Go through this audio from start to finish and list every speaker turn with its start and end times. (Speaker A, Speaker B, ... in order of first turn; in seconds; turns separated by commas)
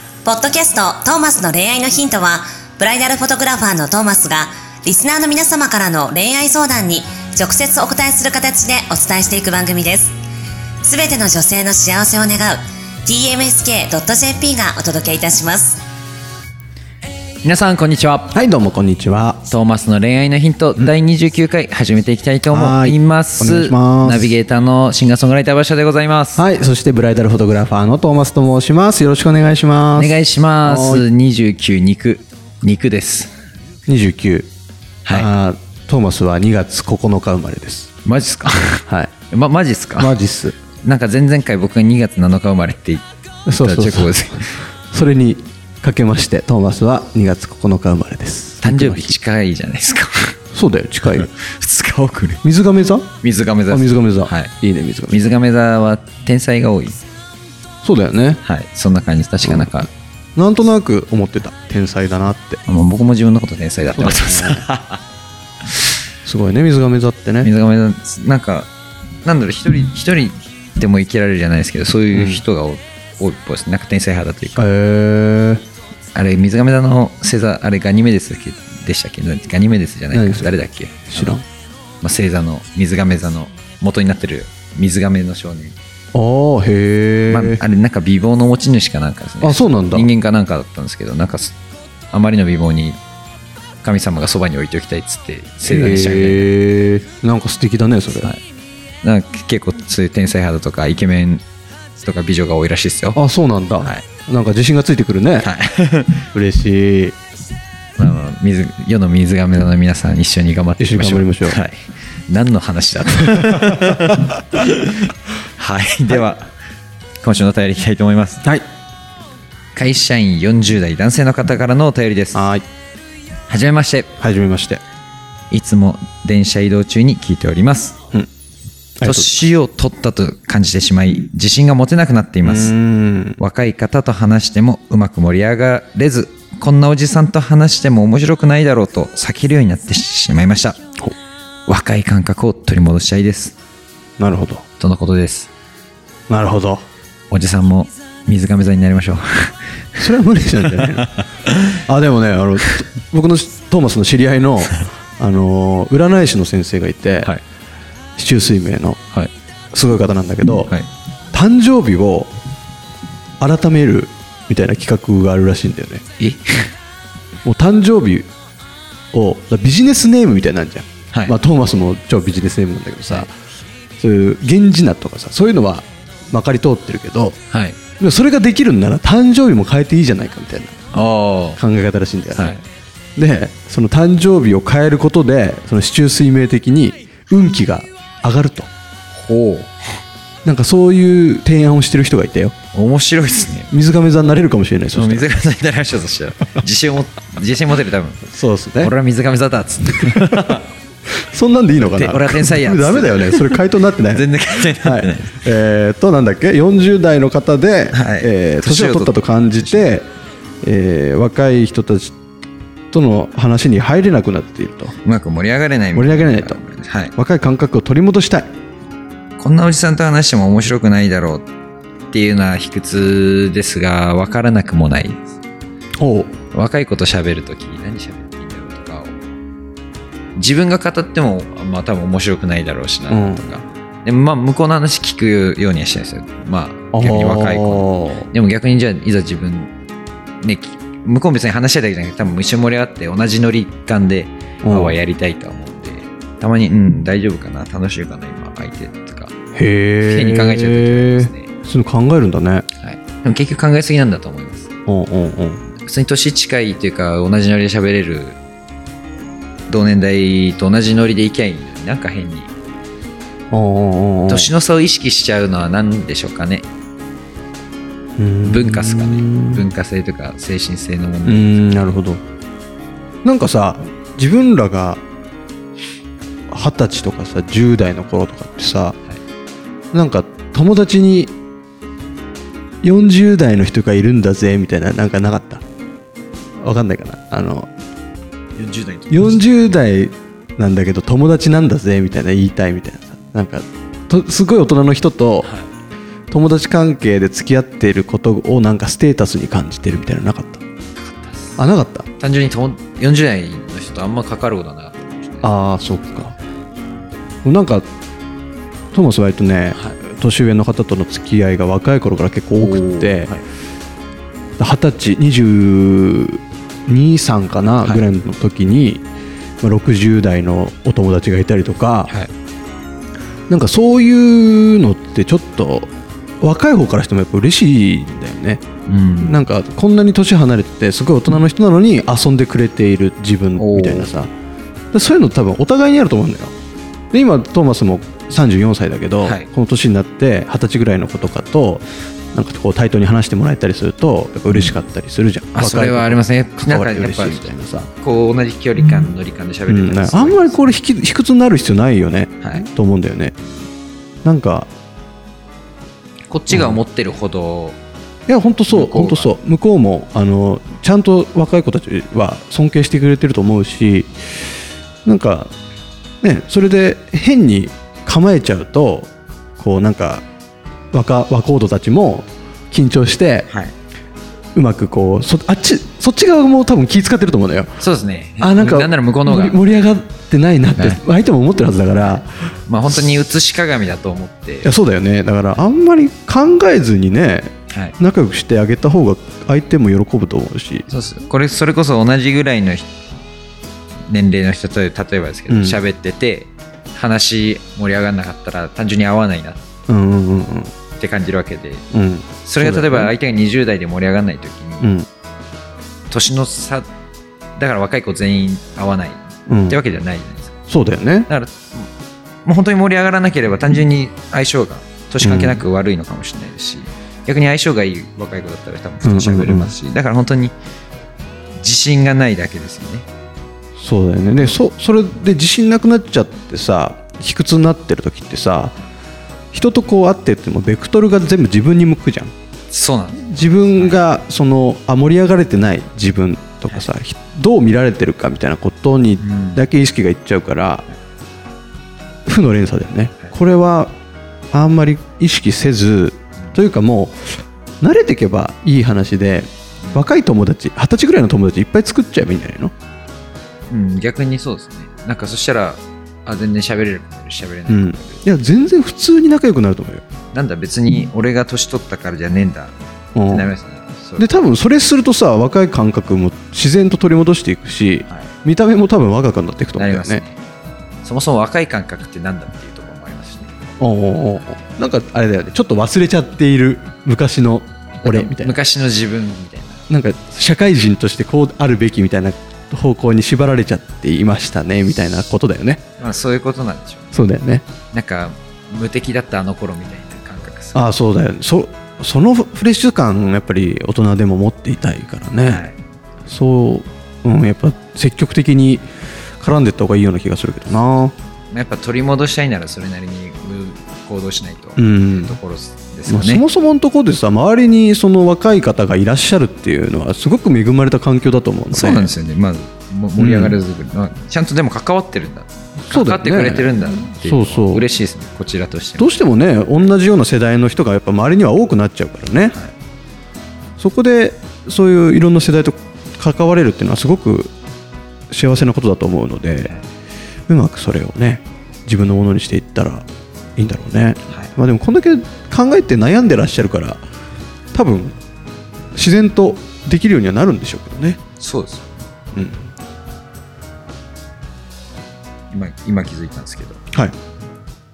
Speaker A: 0.2-10.1, Speaker A: 10.8-15.8, Speaker B: 17.4-18.3, Speaker C: 18.3-19.4, Speaker B: 19.5-26.4, Speaker C: 22.5-24.3, Speaker C: 26.4-31.0, Speaker B: 29.9-33.3, Speaker C: 33.9-34.5, Speaker B: 35.0-35.3, Speaker C: 35.1-37.9, Speaker B: 38.0-40.1, Speaker C: 40.0-40.5, Speaker B: 40.8-43.0, Speaker C: 43.5-49.2, Speaker B: 43.6-44.6, Speaker B: 48.6-50.4, Speaker C: 50.5-51.3, Speaker B: 51.0-52.4, Speaker C: 52.4-53.1, Speaker B: 53.2-54.5, Speaker C: 53.7-55.2, Speaker B: 55.1-57.0, Speaker C: 57.8-58.4, Speaker B: 58.4-59.9, Speaker C: 59.4-62.6, Speaker B: 62.7-65.0, Speaker C: 64.0-64.7, Speaker C: 66.3-67.5, Speaker B: 67.4-68.7, Speaker B: 69.2-74.7, Speaker C: 72.1-72.4, Speaker C: 74.6-75.6, Speaker B: 76.2-81.4, Speaker C: 80.1-80.5, Speaker C: 81.1-81.4, Speaker B: 82.0-85.8, Speaker C: 86.1-87.6, Speaker B: 87.3-91.5, Speaker C: 89.4-90.1, Speaker B: 92.1-93.0, Speaker B: 93.8-96.5, Speaker C: 95.7-98.3, Speaker B: 99.0-101.4, Speaker B: 102.0-103.2, Speaker C: 103.2-105.5, Speaker B: 105.4-106.3, Speaker C: 106.3-107.2, Speaker B: 108.0-116.5, Speaker C: 110.8-111.6, Speaker B: 117.2-118.4, Speaker B: 119.8-122.5, Speaker C: 122.3-122.6, Speaker B: 123.5-124.1, Speaker C: 124.2-124.8, Speaker B: 125.5-128.0, Speaker C: 129.0-129.3, Speaker B: 129.0-132.7, Speaker C: 132.4-133.4, Speaker B: 133.4-140.8, Speaker B: 141.7-143.6, Speaker C: 144.2-144.6, Speaker B: 144.8-145.5, Speaker C: 146.3-146.8, Speaker B: 147.3-151.8, Speaker C: 150.0-151.2, Speaker C: 151.8-157.3, Speaker C: 158.2-159.0, Speaker C: 159.7-160.7, Speaker C: 161.3-162.3, Speaker C: 163.4-166.0, Speaker B: 166.2-166.7, Speaker C: 167.4-168.3, Speaker C: 169.1-173.3, Speaker C: 174.0-177.4, Speaker B: 177.5-177.8, Speaker C: 178.0-180.8, Speaker B: 180.9-181.6, Speaker C: 181.6-182.6, Speaker B: 182.3-182.6, Speaker C: 183.2-188.7, Speaker B: 189.1-189.7, Speaker C: 190.4-192.6, Speaker B: 192.7-193.7, Speaker C: 193.7-195.3, Speaker B: 194.9-198.3, Speaker C: 198.3-198.9, Speaker B: 198.8-200.6, Speaker C: 200.2-200.6, Speaker C: 201.2-210.1, Speaker B: 201.8-205.4, Speaker B: 207.9-209.9, Speaker C: 210.6-212.2, Speaker C: 212.9-214.9, Speaker B: 215.1-217.1, Speaker C: 215.9-216.6, Speaker C: 217.2-218.5, Speaker B: 219.4-221.5, Speaker B: 222.1-225.2, Speaker C: 226.0-226.3, Speaker B: 226.5-229.2, Speaker B: 230.3-239.7, Speaker C: 233.1-233.4, Speaker C: 236.9-238.3, Speaker B: 240.4-249.3, Speaker C: 244.6-245.0, Speaker C: 249.6-252.7, Speaker B: 250.0-251.5, Speaker B: 252.8-254.7, Speaker C: 254.9-255.7, Speaker B: 255.8-258.4, Speaker B: 259.7-262.5, Speaker C: 263.5-264.5, Speaker B: 264.3-266.7, Speaker C: 268.2-269.7, Speaker B: 268.4-272.0, Speaker C: 271.3-272.2, Speaker C: 273.2-275.0, Speaker C: 276.5-279.0, Speaker C: 279.9-281.4, Speaker C: 282.8-285.6, Speaker C: 286.6-287.7, Speaker B: 288.6-289.5, Speaker C: 289.1-295.5, Speaker C: 296.3-300.6, Speaker B: 301.0-301.6, Speaker C: 301.6-302.1, Speaker B: 302.2-305.6, Speaker C: 305.4-306.3, Speaker C: 307.4-307.9, Speaker C: 308.9-313.3, Speaker B: 312.6-313.4, Speaker C: 314.6-319.1, Speaker C: 319.6-322.1, Speaker C: 323.5-325.9, Speaker C: 326.4-328.6, Speaker B: 328.9-329.4, Speaker C: 329.2-334.3, Speaker B: 333.6-334.1, Speaker C: 334.9-336.6, Speaker C: 337.1-347.9, Speaker B: 344.5-344.8, Speaker B: 345.6-350.7, Speaker C: 348.8-349.1, Speaker C: 349.7-353.4, Speaker B: 352.4-352.7, Speaker C: 354.2-354.7, Speaker B: 356.3-357.8, Speaker C: 356.5-356.8, Speaker C: 358.3-364.1, Speaker B: 358.7-359.3, Speaker C: 365.1-365.5, Speaker C: 366.2-370.2, Speaker C: 370.9-373.5, Speaker C: 374.6-377.8, Speaker B: 377.8-379.6, Speaker C: 378.4-382.4, Speaker B: 380.8-381.0, Speaker B: 382.0-384.7, Speaker C: 384.6-390.9, Speaker B: 390.9-392.9, Speaker B: 394.1-399.6, Speaker C: 395.5-395.8, Speaker C: 399.9-400.7, Speaker B: 401.0-401.8, Speaker C: 401.9-403.1, Speaker B: 402.4-404.9, Speaker C: 404.8-405.1, Speaker B: 406.1-406.9, Speaker B: 407.6-410.6, Speaker C: 409.5-409.8, Speaker C: 410.7-411.3, Speaker B: 411.3-411.9, Speaker B: 412.5-420.5, Speaker C: 415.2-415.6, Speaker C: 419.0-419.7, Speaker B: 421.6-423.1, Speaker C: 423.8-428.8, Speaker C: 429.5-432.3, Speaker B: 432.7-433.2, Speaker C: 433.1-440.9, Speaker B: 439.2-439.6, Speaker C: 442.3-443.9, Speaker C: 444.5-452.7, Speaker B: 453.7-458.2, Speaker C: 457.7-460.1, Speaker B: 460.3-464.4, Speaker C: 463.2-463.5, Speaker C: 464.2-470.2, Speaker B: 469.8-470.4, Speaker B: 471.0-473.5, Speaker C: 473.8-478.6, Speaker B: 478.0-479.8, Speaker C: 479.9-485.8, Speaker B: 486.0-487.2, Speaker C: 487.1-487.6, Speaker B: 487.9-490.8, Speaker C: 490.7-495.7, Speaker B: 495.4-495.8, Speaker C: 496.3-498.9, Speaker C: 499.4-501.1, Speaker B: 501.5-506.4, Speaker C: 504.8-505.4, Speaker C: 506.1-512.1, Speaker B: 511.7-519.1, Speaker C: 513.2-513.6, Speaker C: 515.9-517.9, Speaker C: 519.0-522.6, Speaker C: 523.8-527.5, Speaker C: 528.3-529.7, Speaker C: 530.5-533.0, Speaker C: 533.6-537.0, Speaker C: 537.7-538.1, Speaker C: 539.0-541.2, Speaker B: 541.4-542.0, Speaker C: 542.3-542.7, Speaker B: 545.5-546.8